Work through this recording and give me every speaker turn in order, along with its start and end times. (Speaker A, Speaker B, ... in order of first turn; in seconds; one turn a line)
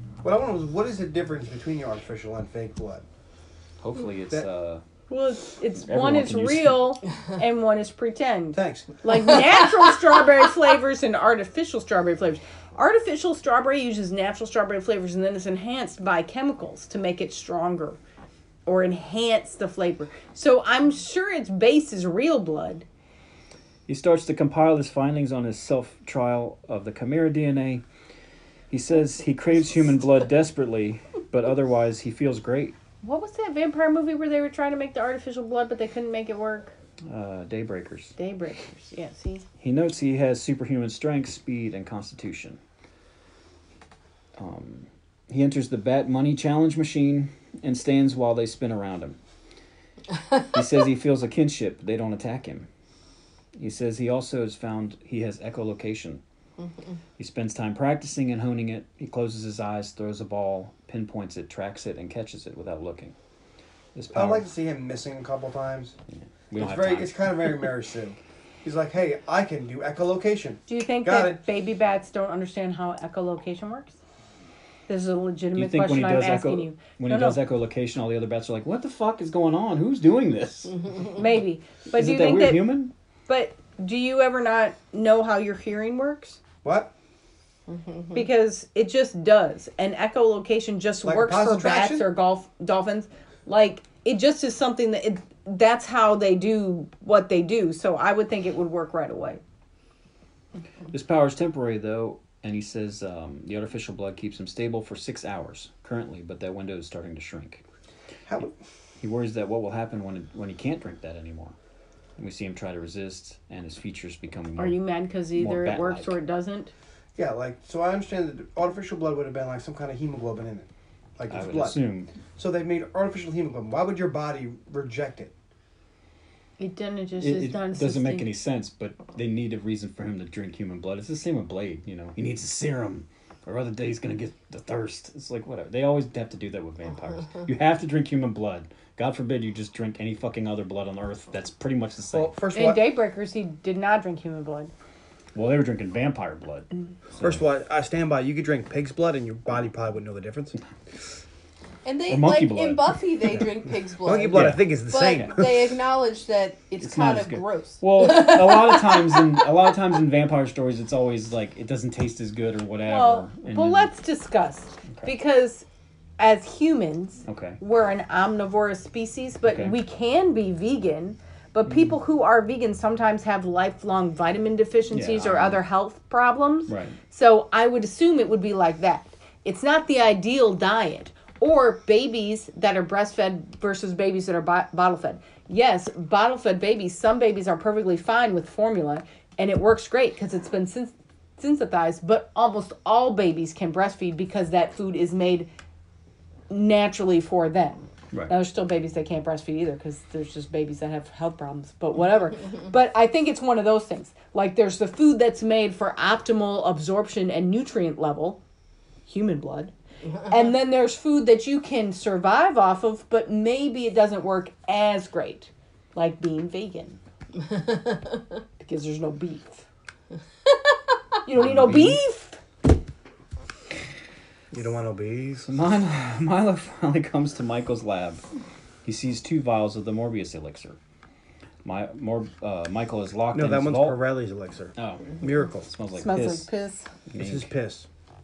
Speaker A: 0.2-3.0
Speaker B: 3.8-4.8
Speaker C: 5.1-18.0
Speaker B: 5.8-6.8
Speaker A: 8.5-8.9
Speaker C: 18.6-22.8
Speaker B: 23.9-27.8
Speaker B: 28.7-32.8
Speaker C: 33.0-36.7
Speaker B: 37.0-38.1
Speaker C: 38.2-39.4
Speaker B: 39.6-42.6
Speaker B: 44.4-49.2
Speaker B: 50.5-52.7
Speaker B: 53.5-56.2
Speaker B: 57.2-63.1
Speaker B: 63.9-64.5
Speaker A: 64.1-66.0
Speaker B: 66.1-67.6
Speaker A: 66.5-71.4
Speaker C: 70.7-74.0
Speaker C: 74.9-77.4
Speaker B: 75.5-80.8
Speaker C: 81.1-82.8
Speaker B: 81.9-82.9
Speaker C: 83.3-86.4
Speaker A: 86.6-86.9
Speaker D: 87.7-88.1
Speaker C: 88.1-99.4
Speaker A: 91.0-92.1
Speaker B: 100.9-107.6
Speaker A: 108.3-108.5
Speaker B: 109.0-111.5
Speaker B: 112.2-114.8
Speaker C: 114.6-116.7
Speaker B: 115.3-116.1
Speaker A: 117.2-121.8
Speaker B: 121.3-122.1
Speaker A: 122.3-125.3
Speaker C: 126.6-128.3
Speaker B: 127.2-142.3
Speaker A: 142.1-142.9
Speaker C: 142.5-144.7
Speaker B: 145.3-147.4
Speaker A: 147.2-150.6
Speaker D: 151.8-159.5
Speaker B: 152.1-152.9
Speaker A: 154.0-155.6
Speaker B: 154.3-155.3
Speaker B: 156.8-163.9
Speaker C: 162.9-165.7
Speaker C: 166.2-195.5
Speaker B: 167.2-167.6
Speaker B: 169.5-169.7
Speaker B: 174.9-175.6
Speaker B: 176.7-176.9
Speaker C: 196.5-208.4
Speaker C: 209.1-209.7
Speaker C: 210.2-217.0
Speaker D: 217.5-218.0
Speaker C: 218.6-219.6
Speaker C: 221.2-222.4
Speaker B: 221.3-222.0
Speaker A: 224.5-225.5
Speaker B: 225.4-228.2
Speaker B: 228.8-230.8
Speaker B: 231.6-234.0
Speaker A: 233.3-235.7
Speaker B: 234.8-236.5
Speaker C: 235.9-236.9
Speaker B: 237.1-237.5
Speaker A: 237.2-237.9